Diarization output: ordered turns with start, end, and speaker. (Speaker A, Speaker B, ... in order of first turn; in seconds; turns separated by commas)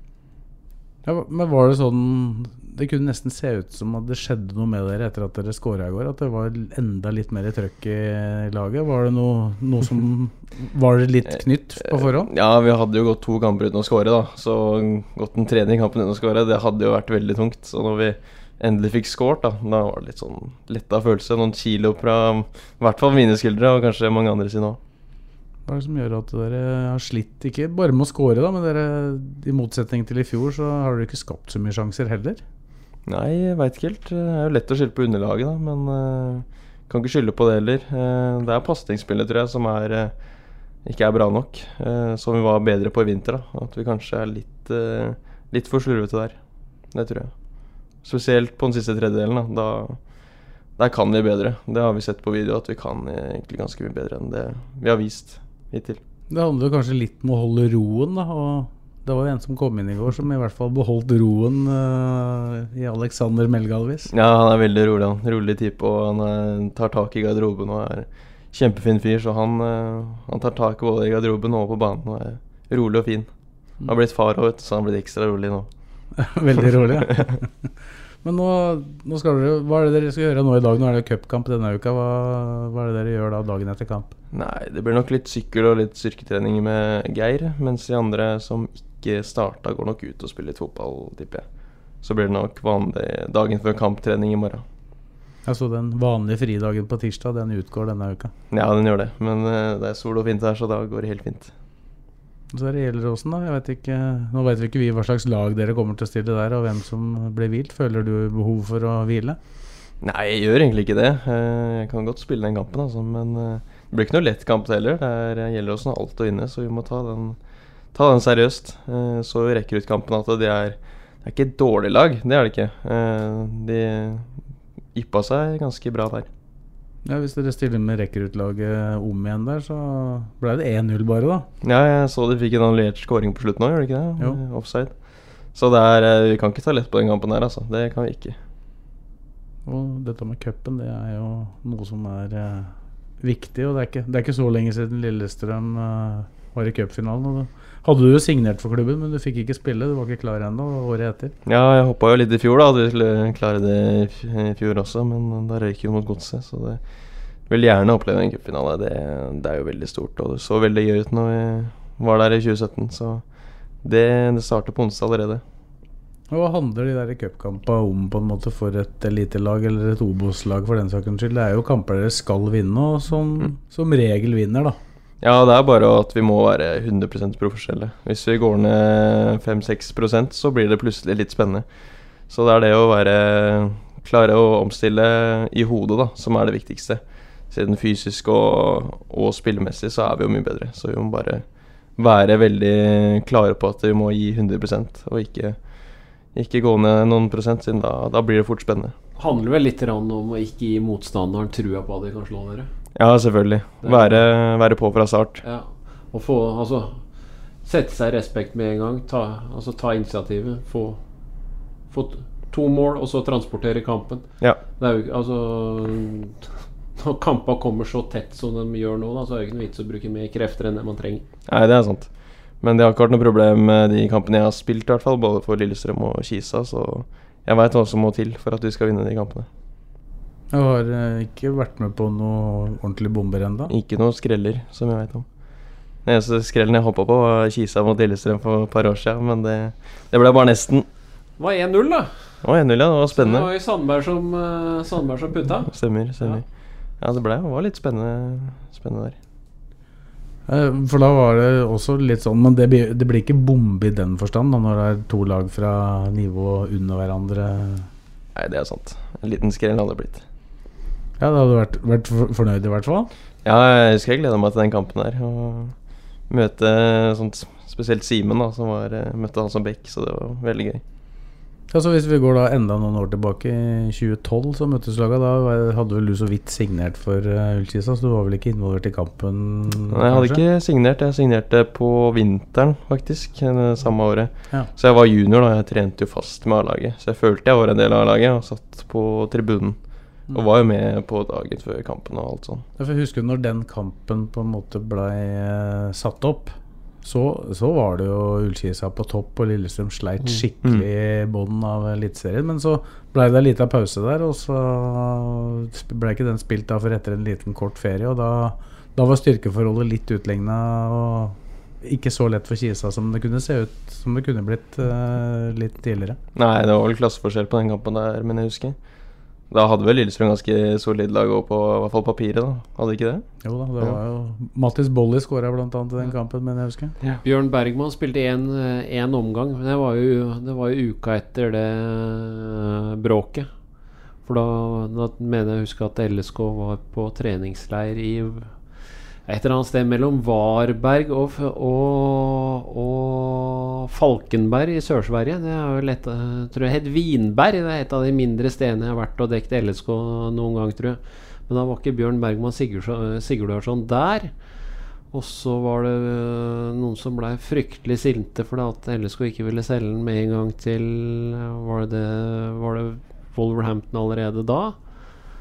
Speaker A: 1.0-12.3, Speaker B: 11.8-24.8, Speaker A: 25.6-32.4, Speaker B: 33.1-40.1, Speaker B: 40.8-46.4, Speaker B: 46.9-47.3, Speaker B: 48.0-50.0, Speaker B: 50.8-56.0, Speaker A: 56.3-64.1, Speaker B: 64.1-73.3, Speaker B: 73.8-75.7, Speaker A: 76.2-77.7, Speaker A: 78.2-84.1, Speaker B: 84.3-91.5, Speaker B: 92.0-94.6, Speaker A: 95.4-98.3, Speaker B: 98.5-101.5, Speaker A: 102.5-109.4, Speaker B: 110.0-117.4, Speaker B: 117.9-124.3, Speaker B: 124.9-126.3, Speaker A: 127.0-131.5, Speaker B: 131.6-138.4, Speaker A: 139.6-151.3, Speaker B: 151.4-156.8, Speaker B: 157.5-163.2, Speaker B: 163.8-165.4, Speaker A: 166.3-174.8, Speaker B: 175.2-181.7, Speaker B: 182.3-191.4, Speaker B: 192.0-195.6, Speaker B: 196.3-198.9, Speaker C: 199.2-202.7, Speaker B: 202.9-205.4, Speaker C: 203.8-204.2, Speaker C: 205.4-207.0, Speaker C: 207.6-211.0, Speaker C: 211.9-214.2, Speaker C: 214.8-216.4, Speaker C: 217.0-221.2, Speaker B: 221.5-229.5, Speaker A: 230.5-233.7, Speaker B: 233.7-235.2, Speaker B: 236.0-240.8, Speaker C: 241.4-242.3, Speaker B: 242.4-243.5, Speaker C: 243.1-246.4, Speaker B: 245.7-246.4, Speaker B: 247.0-249.2, Speaker A: 250.5-257.9, Speaker B: 258.3-260.2, Speaker A: 261.2-263.1, Speaker B: 263.4-265.7, Speaker B: 266.3-270.8, Speaker A: 271.7-280.4, Speaker B: 279.9-292.6, Speaker A: 292.8-316.2, Speaker B: 316.3-318.8, Speaker B: 319.5-323.2, Speaker A: 323.4-326.9, Speaker C: 327.2-333.5, Speaker C: 334.2-338.6, Speaker C: 339.2-354.3, Speaker C: 355.1-364.8